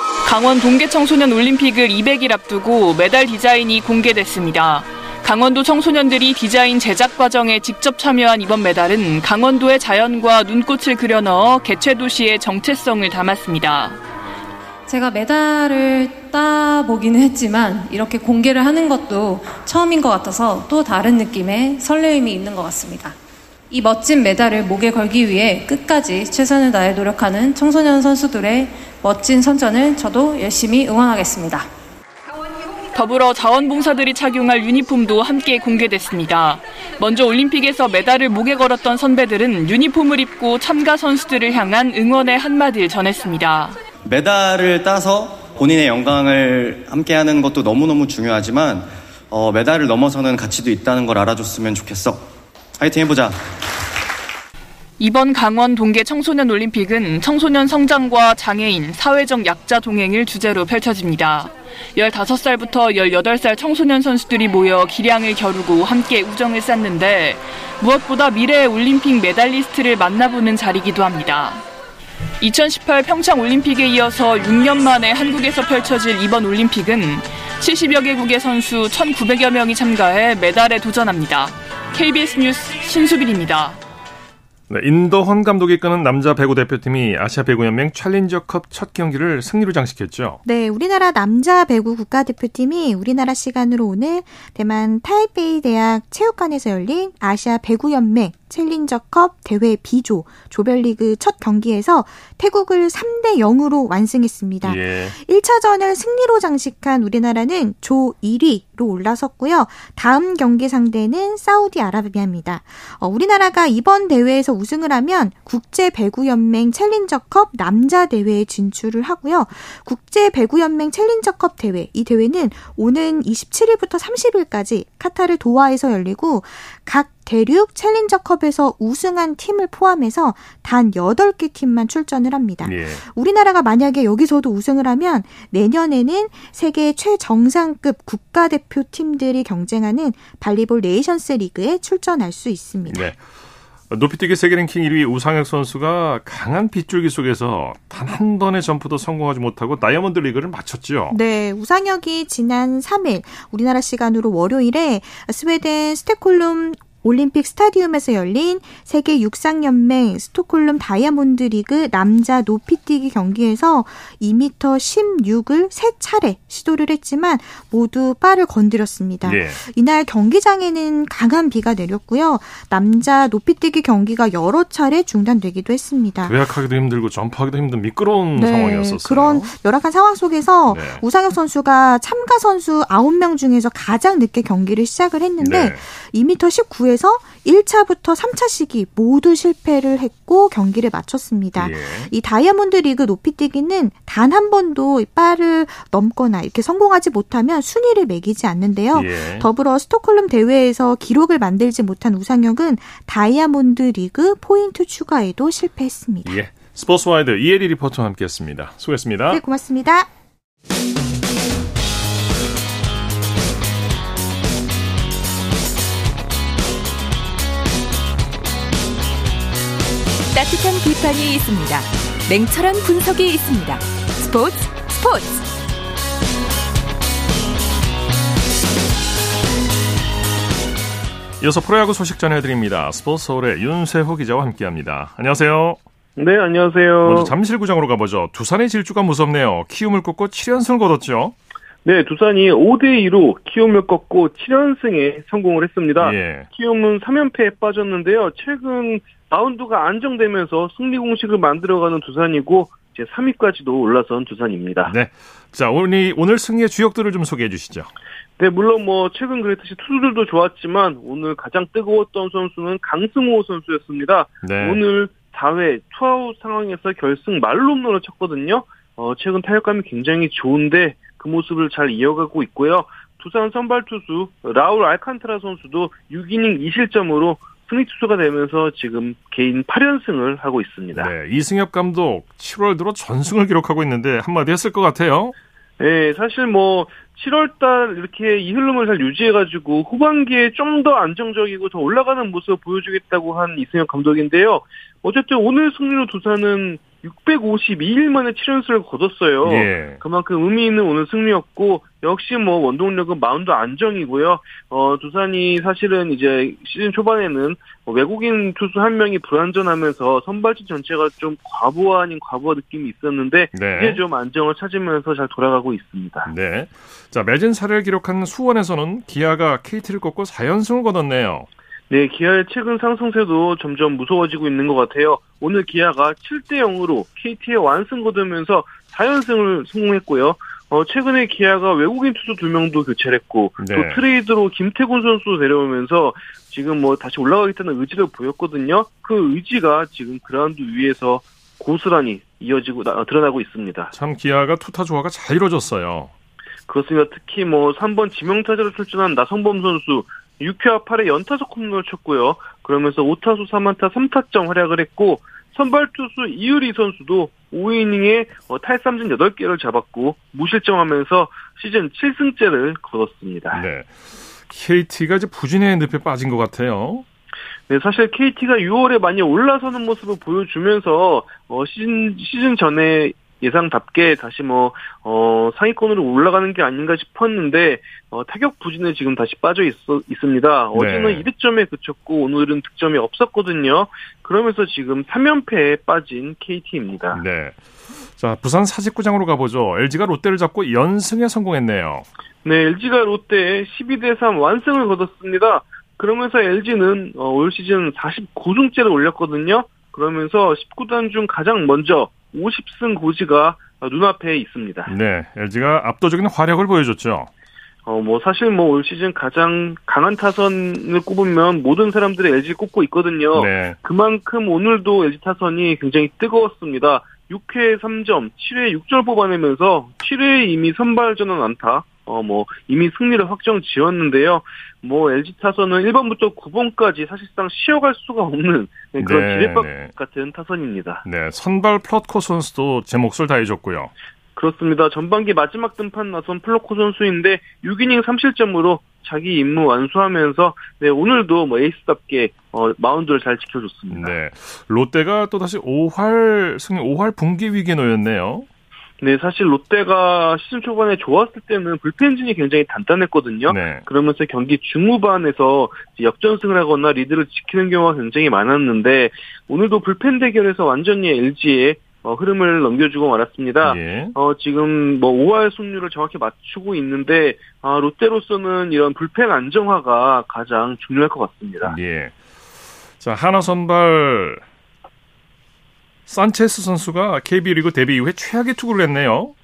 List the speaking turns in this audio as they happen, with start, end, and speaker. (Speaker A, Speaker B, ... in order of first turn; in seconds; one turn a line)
Speaker A: 0.2-14.0
Speaker B: 14.9-23.2
Speaker B: 23.7-31.7
Speaker A: 33.0-43.8
Speaker C: 44.0-52.3
Speaker C: 52.8-53.4
Speaker A: 55.0-71.6
Speaker A: 72.4-83.8
Speaker D: 84.7-90.4
Speaker E: 90.4-143.1
Speaker D: 104.6-105.2
Speaker D: 132.6-133.0
Speaker D: 142.9-143.2
Speaker D: 143.9-151.2
Speaker E: 151.1-176.3
Speaker D: 169.2-169.6
Speaker D: 176.2-179.6
Speaker E: 178.3-206.4
Speaker D: 180.7-181.0
Speaker D: 185.4-185.9
Speaker D: 191.6-192.1
Speaker D: 198.9-199.5
Speaker D: 206.2-209.4
Speaker E: 209.3-210.1
Speaker F: 220.3-225.5
Speaker D: 231.4-235.8
Speaker G: 236.2-237.3
Speaker D: 237.0-241.3
Speaker G: 241.8-254.9
Speaker D: 246.0-246.5
Speaker D: 254.9-257.9
Speaker G: 258.4-281.1
Speaker D: 264.4-264.8
Speaker D: 280.9-285.4
Speaker G: 285.8-316.3
Speaker D: 299.4-300.0
Speaker D: 313.5-314.0
Speaker D: 316.3-321.5
Speaker G: 321.9-343.9
Speaker D: 333.6-334.0
Speaker D: 343.9-346.1
Speaker G: 346.7-363.6
Speaker D: 363.5-363.9
Speaker D: 364.5-367.1
Speaker G: 367.7-387.2
Speaker D: 380.8-381.3
Speaker D: 387.1-387.6
Speaker D: 388.2-392.1
Speaker G: 392.4-404.9
Speaker D: 404.9-407.3
Speaker G: 407.9-431.0
Speaker D: 413.4-413.8
Speaker D: 429.0-429.9
Speaker D: 431.0-433.9
Speaker G: 434.4-444.2
Speaker D: 443.9-448.5
Speaker G: 449.0-471.8
Speaker D: 453.5-453.9
Speaker D: 463.6-464.1
Speaker D: 471.6-472.1
Speaker D: 473.0-474.4
Speaker D: 476.1-479.3